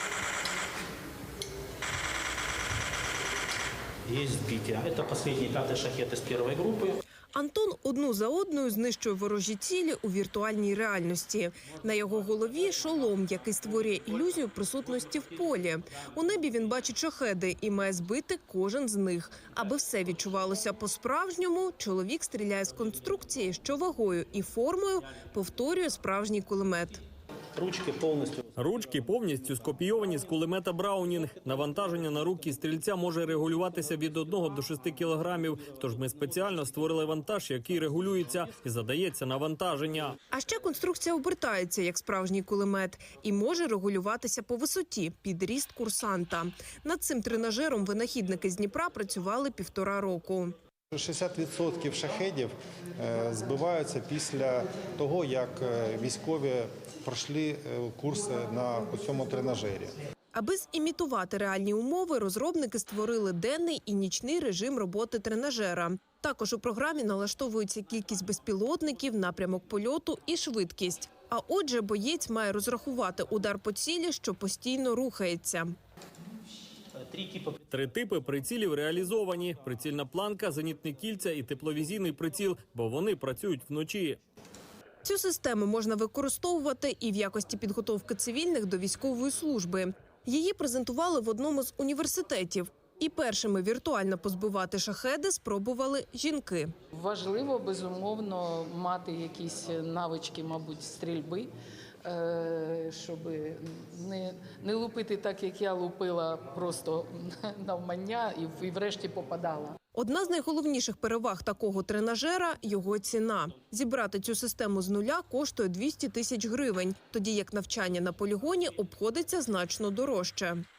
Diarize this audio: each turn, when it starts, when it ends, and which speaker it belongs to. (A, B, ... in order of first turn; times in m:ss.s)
0:04.0-0:07.0 A
0:07.3-0:27.0 B
0:27.5-0:28.5 A
0:28.6-0:40.2 C
0:40.3-0:50.6 B
0:50.9-0:59.9 D
1:00.3-1:15.7 B
1:17.0-1:17.6 A
1:17.7-1:24.2 C
1:25.0-1:36.7 B
1:36.9-1:41.5 E
1:42.0-1:49.8 E
1:49.9-2:00.6 B